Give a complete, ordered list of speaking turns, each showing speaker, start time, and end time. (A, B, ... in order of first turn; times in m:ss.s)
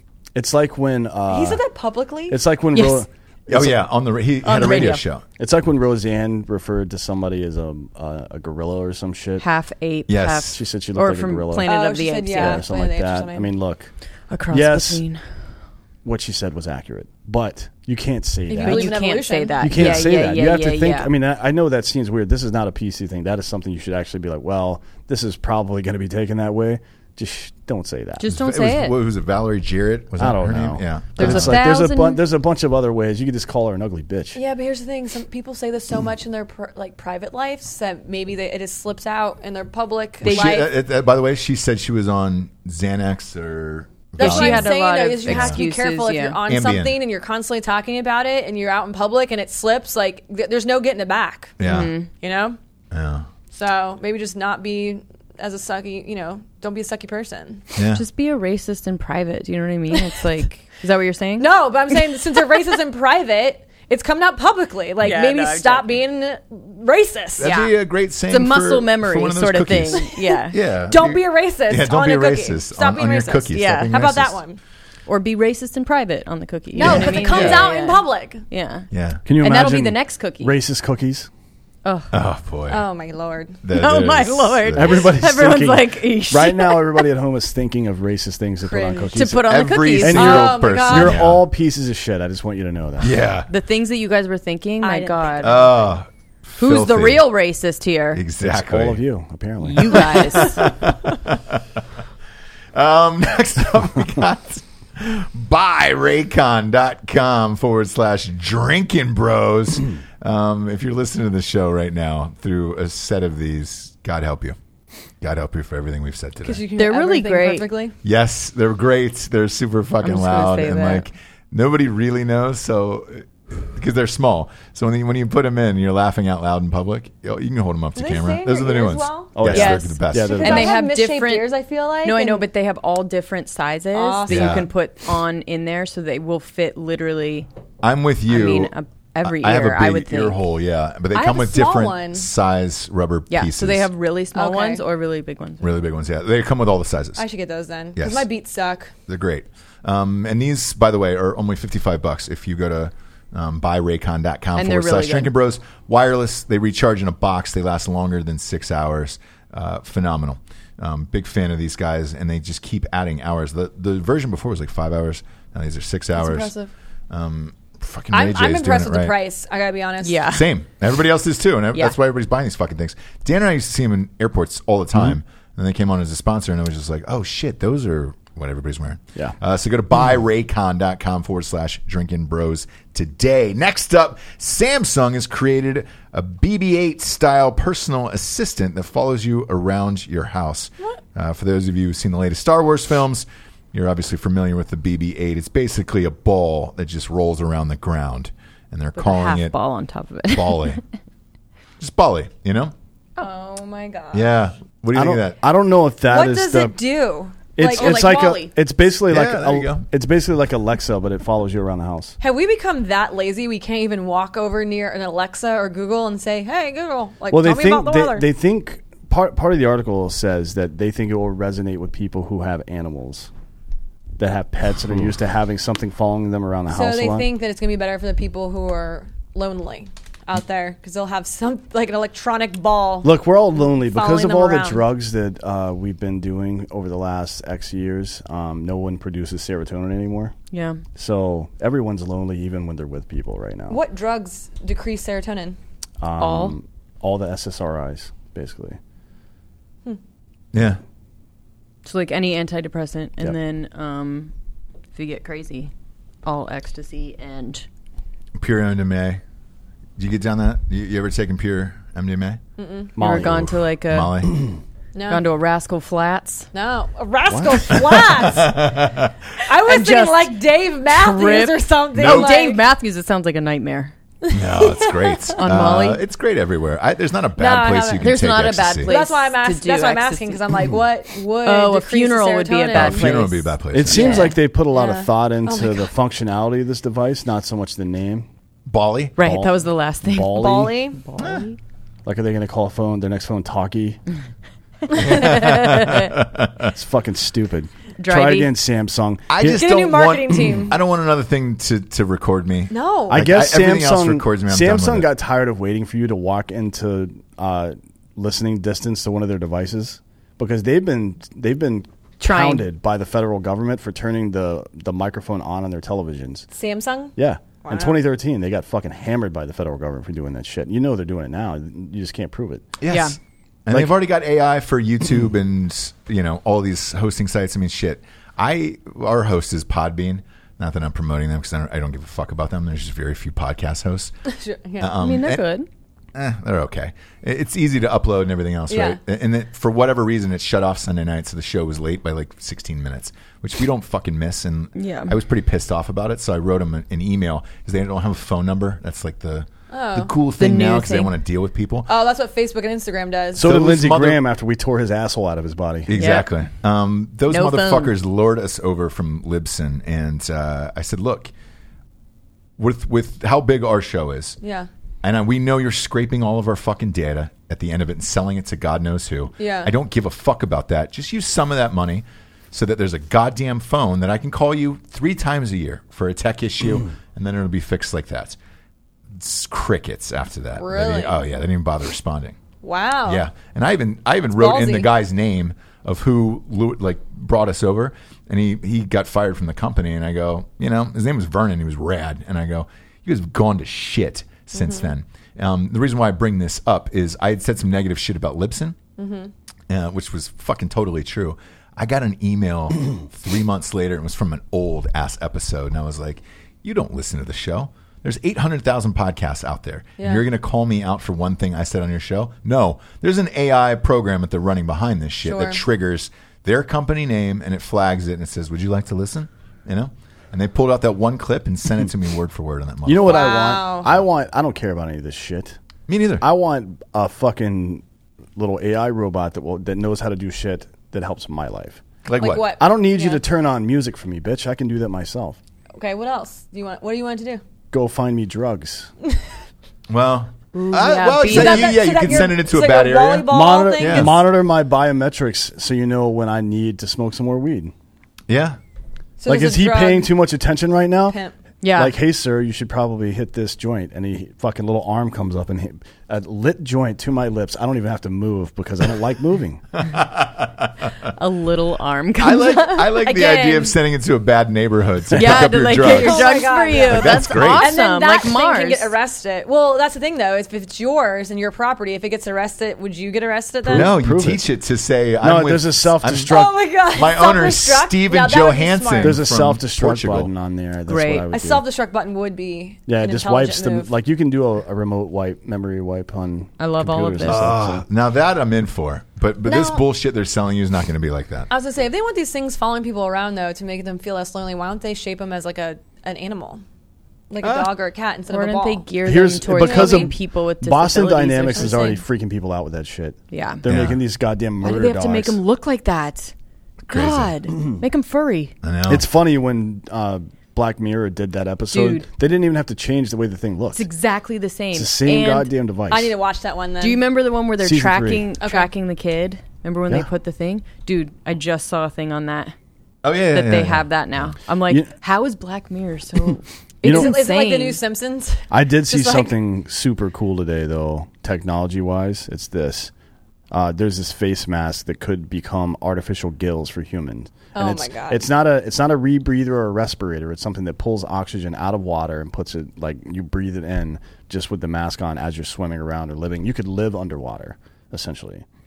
0:00.4-0:01.6 A
0:01.3-0:02.4 B
0:02.3-0:03.8 A
0:02.7-0:03.1 C
0:03.5-0:05.2 D
0:04.4-0:05.0 C
0:05.4-0:09.4 A
0:09.4-0:12.6 C
0:10.1-0:10.6 D
0:10.5-0:11.7 A
0:11.6-0:13.5 B
0:12.3-0:13.9 A
0:14.3-0:15.2 C
0:14.5-0:15.0 A
0:16.0-0:19.0 A
0:18.5-0:19.6 B
0:18.6-0:21.1 C
0:19.6-0:28.3 A
0:19.7-0:20.1 D
0:28.2-0:29.0 C
0:28.2-0:31.6 D
0:30.2-0:34.4 A
0:31.2-0:32.2 C
0:34.3-0:40.7 B
0:40.2-0:44.7 D
0:40.2-0:40.6 C
0:44.2-0:51.6 B
0:44.2-0:46.4 C
0:45.3-0:45.6 D
0:46.5-0:47.0 D
0:51.6-0:51.9 D
0:51.6-0:52.1 C
0:52.2-0:52.6 B
0:52.9-0:53.3 D
0:53.5-0:57.6 B
0:57.8-0:58.0 D
0:57.9-1:02.0 C
1:01.4-1:07.6 B
1:05.0-1:06.0 C
1:07.4-1:14.4 D
1:07.4-1:07.7 C
1:08.3-1:10.6 C
1:10.9-1:14.6 B
1:13.5-1:13.9 C
1:15.1-1:18.9 C
1:16.7-1:18.4 B
1:16.8-1:17.7 D
1:18.9-1:19.2 D
1:19.2-1:21.3 A
1:19.4-1:20.6 C
1:21.8-1:22.1 C
1:22.1-1:22.8 D
1:22.7-1:23.6 B
1:23.6-1:25.1 D
1:23.7-1:27.1 C
1:24.7-1:33.2 A
1:28.6-1:29.2 B
1:29.1-1:30.5 C
1:29.4-1:31.5 D
1:30.1-1:31.2 B
1:33.0-1:33.5 D
1:33.5-1:35.7 C
1:34.8-1:35.7 B
1:35.4-1:37.3 D
1:36.6-1:38.2 C
1:38.1-1:39.0 D
1:38.4-1:40.4 A
1:39.6-1:40.7 C
1:39.9-1:41.8 D
1:42.7-1:54.6 D
1:55.2-1:56.6 D
1:56.4-1:58.0 B
1:56.8-1:57.6 C
1:58.0-2:10.5 D
2:00.0-2:01.1 C
2:08.0-2:12.5 B
2:09.4-2:10.7 A
2:09.5-2:11.5 C
2:12.0-2:17.5 C
2:13.9-2:14.6 B
2:14.3-2:14.7 D
2:17.8-2:18.7 D
2:18.3-2:20.4 C
2:19.2-2:23.9 D
2:21.1-2:22.3 B
2:23.3-2:25.8 C
2:24.4-2:24.8 B
2:25.6-2:27.2 D
2:27.2-2:28.9 B
2:28.0-2:28.3 D
2:29.1-2:46.5 D
2:34.6-2:35.3 C
2:46.2-2:46.7 B
2:47.1-2:49.2 D
2:48.1-2:50.3 B
2:50.0-2:50.5 C
2:50.3-3:19.5 D
3:19.0-3:20.8 C
3:20.3-3:20.8 D
3:21.8-3:22.7 D
3:23.2-3:24.3 B
3:24.1-3:25.4 D
3:24.9-3:26.8 A
3:26.1-3:28.5 B
3:27.6-3:32.2 A
3:27.7-3:28.5 C
3:29.1-3:29.8 D
3:32.2-3:38.3 B
3:37.3-3:43.3 A
3:44.2-3:47.3 A
3:46.7-3:54.9 B
3:53.0-4:00.4 A
4:00.5-4:00.8 C
4:01.0-4:03.8 A
4:03.7-4:05.6 B
4:06.0-4:08.8 A
4:06.2-4:06.6 C
4:10.5-4:10.8 D
4:11.8-4:14.3 C
4:15.0-4:15.7 C
4:16.2-4:17.7 C
4:18.4-4:19.2 D
4:20.0-4:22.4 D
4:22.6-4:23.0 B
4:23.0-4:23.6 A
4:23.0-4:24.3 C
4:23.1-4:24.5 D
4:25.0-4:25.2 B
4:25.1-4:26.5 C
4:26.5-4:28.7 B
4:27.3-4:29.2 D
4:29.4-4:32.6 B
4:29.7-4:33.9 C
4:32.0-4:32.4 D
4:34.2-4:35.4 B
4:34.3-4:38.9 D
4:35.4-4:36.0 C
4:37.4-4:38.1 B
4:38.0-4:40.4 C
4:38.8-4:43.2 B
4:41.4-4:44.4 C
4:42.7-4:44.3 D
4:43.7-4:48.3 A
4:44.7-4:45.9 B
4:48.7-4:49.2 D
4:49.2-4:51.6 C
4:49.2-4:50.8 A
4:50.3-4:51.0 B
4:51.2-4:51.5 D
4:52.0-4:54.0 A
4:54.9-4:56.7 D
4:55.1-4:56.1 C
4:56.7-4:59.6 A
4:58.0-4:58.5 C
4:59.3-5:05.1 D
4:59.4-5:00.8 B
5:02.7-5:03.3 B
5:03.1-5:16.5 A
5:12.2-5:12.7 C
5:16.5-5:18.0 B
5:17.2-5:22.7 A
5:22.8-5:34.1 D
5:22.9-5:23.2 C
5:34.3-5:34.9 B
5:34.8-5:35.5 D
5:35.0-5:35.7 C
5:36.2-5:51.9 D
5:38.7-5:39.0 B
5:44.8-5:45.2 C
5:49.7-5:50.1 B
5:50.4-5:51.1 C
5:51.9-5:53.5 B
5:53.4-5:55.9 A
5:53.4-5:54.2 D
5:55.9-6:01.3 D
5:55.9-5:56.3 C
5:57.3-5:57.9 C
6:02.6-6:04.4 D
6:04.4-6:04.7 B
6:05.0-6:18.4 D
6:09.4-6:09.7 B
6:19.2-6:22.4 D
6:20.6-6:21.2 B
6:22.6-6:23.3 B
6:23.1-6:38.8 D
6:24.4-6:24.9 B
6:34.5-6:34.9 B
6:39.0-6:39.3 B
6:39.7-7:03.5 D
6:50.0-6:50.2 B
6:55.2-6:55.6 B
7:02.9-7:05.6 A
7:03.1-7:03.9 B
7:05.9-7:06.2 D
7:06.2-7:07.8 A
7:08.4-7:11.8 A
7:12.1-7:12.6 D
7:12.2-7:13.2 B
7:12.5-7:15.4 A
7:15.8-7:17.4 B
7:17.7-7:18.9 A
7:19.9-7:24.3 D
7:20.5-7:22.2 C
7:21.2-7:24.2 B
7:23.3-7:27.7 A
7:28.3-7:28.6 D
7:29.2-7:30.1 B
7:29.3-7:31.2 A
7:31.1-7:31.3 B
7:31.6-7:32.0 C
7:31.8-7:39.6 A
7:39.8-7:41.1 D
7:41.2-7:42.9 C
7:42.2-7:47.7 D
7:43.0-7:43.8 B
7:45.2-7:48.9 C
7:45.2-7:45.5 A
7:45.8-7:54.0 B
7:53.6-7:54.4 A
7:53.7-8:00.3 D
7:55.2-7:56.6 A
7:56.3-7:59.2 B
7:59.0-8:01.6 A
8:00.9-8:01.3 C
8:01.3-8:03.9 B
8:02.9-8:07.8 A
8:06.6-8:07.5 C
8:07.2-8:11.5 D
8:09.4-8:09.8 B
8:11.5-8:16.6 B
8:17.3-8:18.9 B
8:17.4-8:17.7 D
8:18.3-8:22.0 C
8:19.0-8:25.4 A
8:19.5-8:20.1 B
8:21.6-8:22.0 B
8:23.3-8:23.6 C
8:23.7-8:24.0 D
8:24.6-8:26.3 C
8:26.9-8:27.4 D
8:26.9-8:28.5 C
8:28.6-8:29.1 D
8:28.9-8:33.8 A
8:31.7-8:32.1 C
8:33.7-8:35.5 C
8:34.7-8:36.2 A
8:35.9-8:37.0 B
8:36.8-8:42.5 C
8:37.6-8:38.2 A
8:38.4-8:38.7 B
8:43.0-8:44.3 D
8:43.3-8:47.8 C
8:46.8-8:49.4 B
8:46.8-8:47.1 A
8:48.5-8:52.9 A
8:53.5-9:08.4 A
8:57.5-8:58.2 B